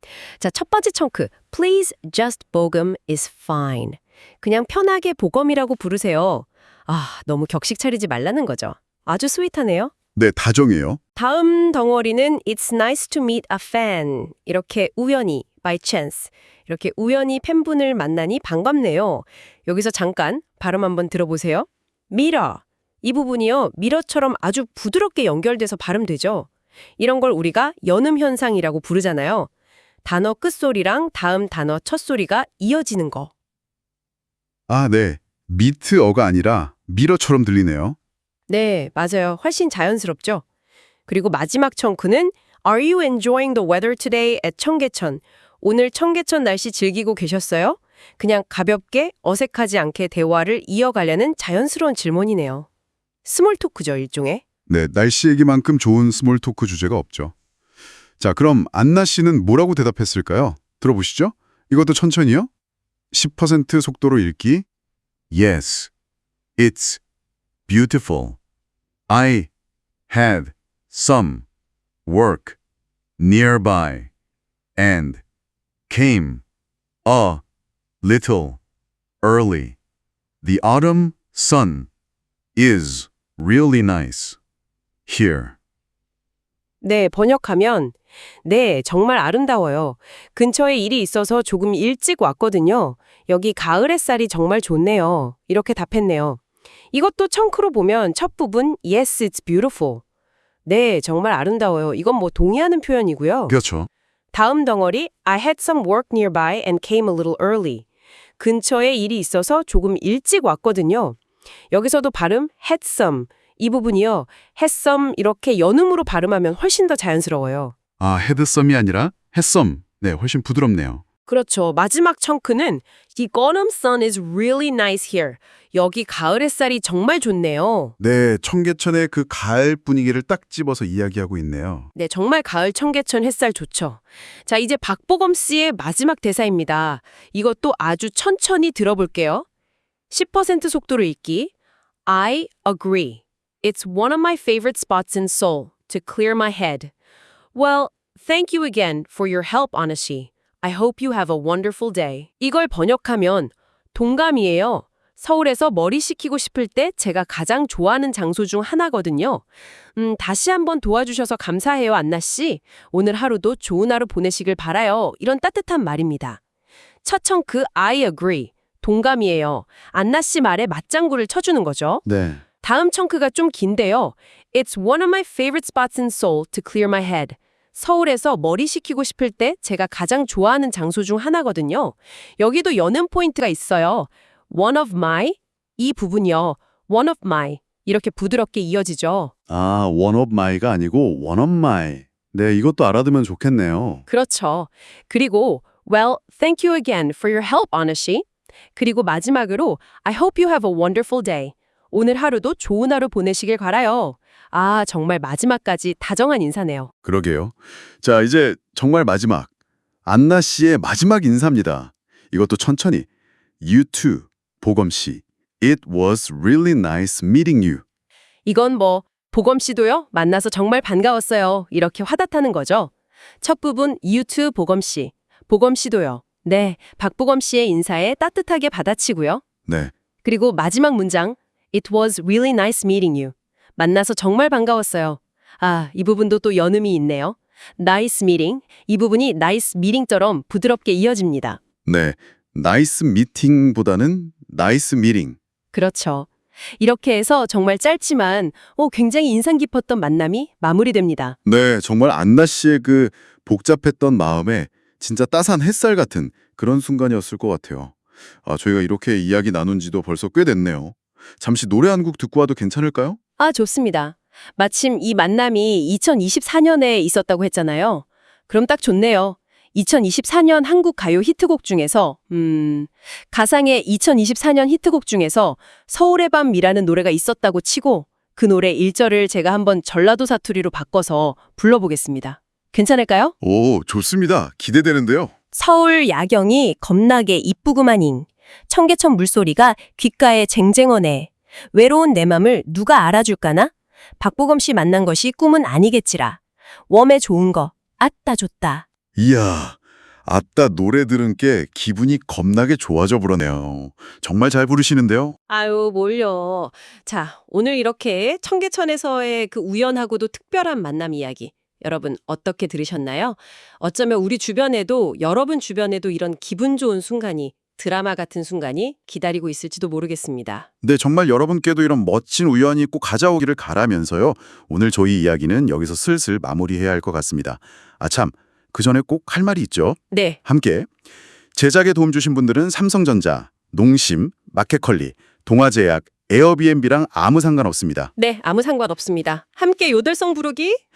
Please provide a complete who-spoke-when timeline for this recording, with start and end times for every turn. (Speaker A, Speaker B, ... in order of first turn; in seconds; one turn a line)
Speaker A: 0.4-9.9
Speaker B: 10.2-11.0
Speaker A: 11.2-29.5
Speaker A: 30.0-33.3
Speaker B: 34.7-38.0
Speaker A: 38.5-40.4
Speaker A: 41.1-52.7
Speaker A: 53.2-54.4
Speaker B: 54.7-57.4
Speaker B: 58.2-62.5
Speaker B: 63.1-64.7
Speaker B: 65.3-65.9
Speaker B: 66.6-67.0
Speaker B: 67.7-68.4
Speaker B: 69.1-69.5
Speaker B: 70.1-71.5
Speaker B: 72.1-72.6
Speaker B: 73.2-74.1
Speaker B: 74.8-75.2
Speaker B: 75.9-76.4
Speaker B: 77.0-77.4
Speaker B: 78.0-78.6
Speaker B: 79.2-79.8
Speaker B: 80.4-81.9
Speaker B: 82.6-84.4
Speaker B: 85.1-85.6
Speaker A: 86.8-96.4
Speaker A: 96.9-100.0
Speaker A: 100.7-103.5
Speaker B: 103.5-103.9
Speaker A: 104.3-107.8
Speaker A: 108.4-111.2
Speaker A: 111.7-117.8
Speaker B: 118.0-121.0
Speaker A: 121.3-127.9
Speaker B: 128.0-131.9
Speaker A: 131.9-139.5
Speaker A: 140.1-141.5
Speaker A: 142.1-146.9
Speaker A: 147.5-166.4
Speaker A: 167.0-172.1
Speaker B: 172.1-172.4
Speaker A: 172.6-189.3
Speaker B: 189.5-194.1
Speaker A: 194.1-206.9
Speaker B: 207.1-209.5
Speaker B: 210.1-213.1
Speaker B: 213.6-217.8
Speaker A: 218.4-229.4
Speaker B: 229.7-229.9
Speaker A: 230.2-241.6
Speaker B: 241.9-245.4
Speaker A: 245.7-251.4
Speaker B: 251.5-263.2
Speaker A: 263.4-283.4
Speaker B: 283.4-285.3
Speaker A: 285.5-298.9
Speaker B: 299.2-305.4
Speaker A: 305.5-320.7
Speaker B: 320.8-330.9
Speaker A: 330.1-330.4
Speaker B: 331.5-338.1
Speaker A: 338.2-340.8